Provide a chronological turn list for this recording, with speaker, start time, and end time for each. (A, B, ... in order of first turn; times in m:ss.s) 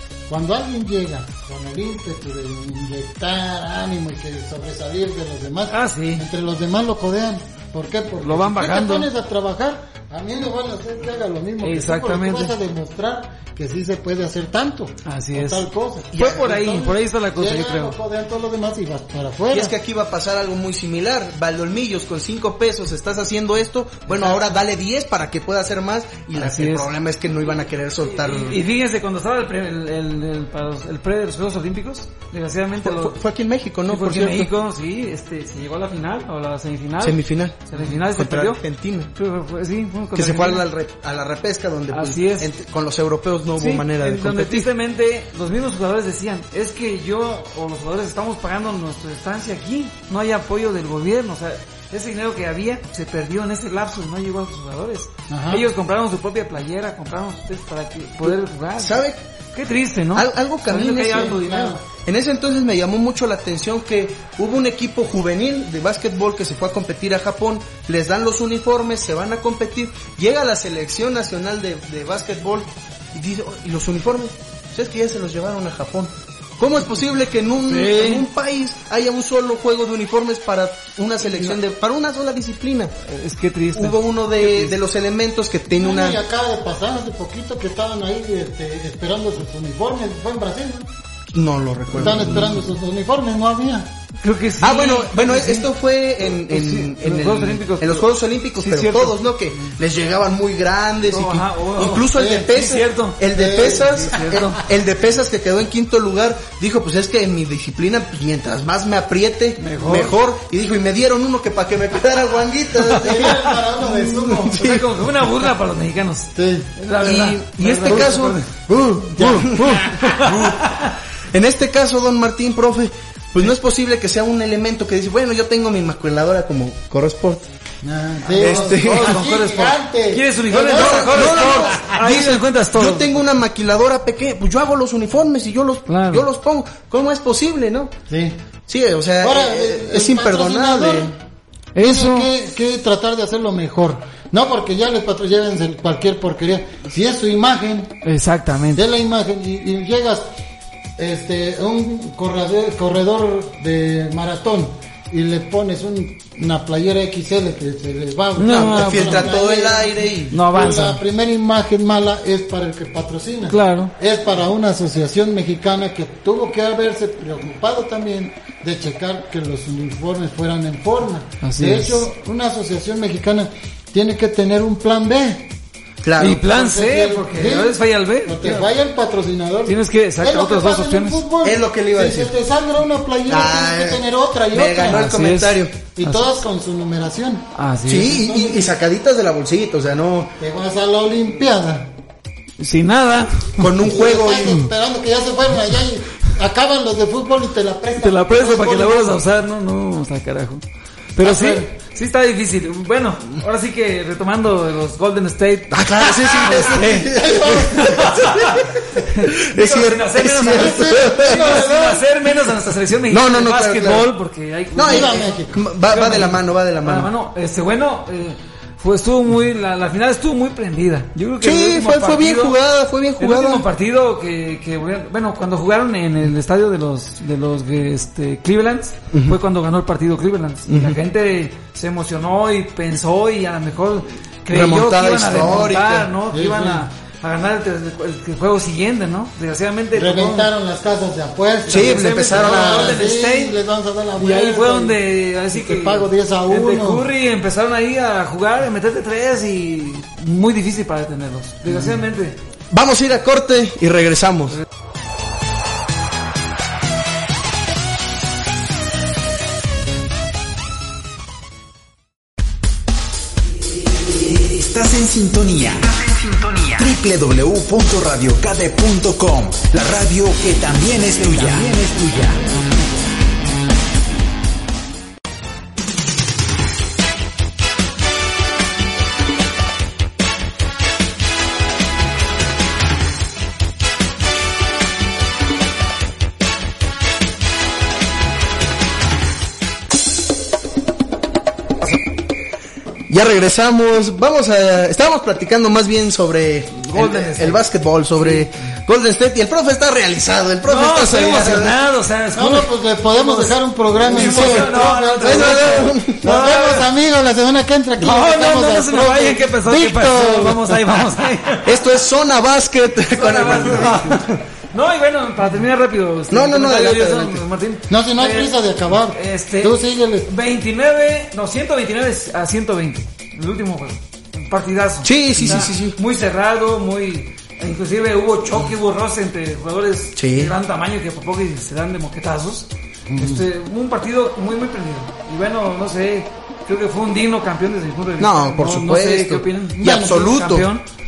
0:00.3-0:16.1 A
0:05.7-0:06.3 B
0:08.2-0:09.1 B
0:11.6-0:12.5 B
0:15.0-0:18.0 B
0:16.1-0:17.0 C
0:17.3-0:19.8 A
0:19.5-0:28.6 C
0:24.1-0:24.6 B
0:26.4-0:26.9 B
0:28.0-0:33.2 B
0:32.8-0:34.5 C
0:33.9-0:38.6 B
0:37.0-0:39.1 C
0:39.1-0:40.7 B
0:40.2-0:44.7 C
0:41.9-0:42.5 B
0:43.6-1:01.8 B
0:55.3-0:55.7 A
0:58.3-0:59.2 C
1:00.1-1:22.9 C
1:01.1-1:01.8 A
1:17.7-1:18.3 B
1:23.1-1:24.8 B
1:23.8-1:26.2 C
1:25.7-1:30.9 A
1:31.3-1:32.6 C
1:31.9-1:33.9 A
1:34.2-1:35.7 B
1:34.6-1:54.9 C
1:36.4-1:39.7 B
1:41.1-1:44.6 B
1:42.1-1:42.5 A
1:43.3-1:44.3 A
1:49.6-1:50.2 B
1:52.8-1:53.2 B
1:52.9-1:54.7 A
1:54.5-1:58.5 B
1:56.4-1:56.7 A
1:57.0-2:07.4 C
1:57.8-1:58.1 A
1:59.1-2:00.0 A
1:59.9-2:01.0 B
2:07.8-2:12.0 A
2:08.2-2:13.2 B
2:08.4-2:09.2 C
2:10.6-2:17.9 C
2:15.9-2:16.3 B
2:18.1-2:18.4 A
2:18.7-2:21.1 C
2:19.2-2:21.1 A
2:21.7-2:22.3 B
2:21.8-2:28.0 A
2:28.0-2:28.8 B
2:28.8-2:30.2 A
2:31.0-2:55.5 A
2:38.4-2:39.4 B
2:38.5-2:40.4 C
2:40.3-2:41.0 B
2:43.5-2:43.9 B
2:51.4-2:52.0 B
2:56.0-2:56.4 C
2:56.2-2:58.7 B
2:56.2-3:05.1 A
2:59.7-3:01.2 B
3:01.4-3:02.3 C
3:03.3-3:04.0 C
3:04.5-3:05.8 C
3:04.8-3:06.3 B
3:06.0-3:07.5 A
3:07.5-3:08.3 B
3:07.9-3:10.4 C
3:08.0-3:08.7 A
3:10.4-3:11.9 A
3:12.6-3:13.6 B
3:13.6-3:14.7 C
3:13.8-3:19.2 A
3:18.0-3:20.6 B
3:21.2-3:35.3 B
3:21.2-3:21.7 A
3:25.7-3:32.0 C
3:27.1-3:28.2 A
3:30.5-3:31.9 A
3:33.1-3:34.1 C
3:34.8-3:37.1 C
3:34.8-3:35.6 A
3:35.9-3:42.6 B
3:41.4-3:43.7 C
3:43.2-4:00.5 B
3:49.1-3:49.4 C
3:50.7-3:51.0 C
3:54.5-3:56.1 C
3:56.3-3:56.8 A
3:59.9-4:05.0 A
4:01.7-4:03.6 B
4:01.7-4:03.0 C
4:04.2-4:12.4 B
4:05.5-4:07.1 A
4:12.7-4:14.6 C
4:24.1-4:32.6 D
4:53.1-5:01.8 C
4:56.9-4:57.7 B
4:58.2-4:58.5 B
5:00.7-5:06.9 B
5:02.4-5:10.6 A
5:04.1-5:06.2 C
5:08.0-5:11.7 B
5:09.7-5:10.6 C
5:11.6-5:14.4 C
5:13.1-5:18.6 B
5:16.3-5:17.4 C
5:17.9-5:20.3 A
5:19.1-5:40.8 B
5:25.0-5:26.0 C
5:30.2-5:30.5 C
5:33.1-5:33.5 A
5:38.2-5:40.7 C
5:39.8-5:40.2 A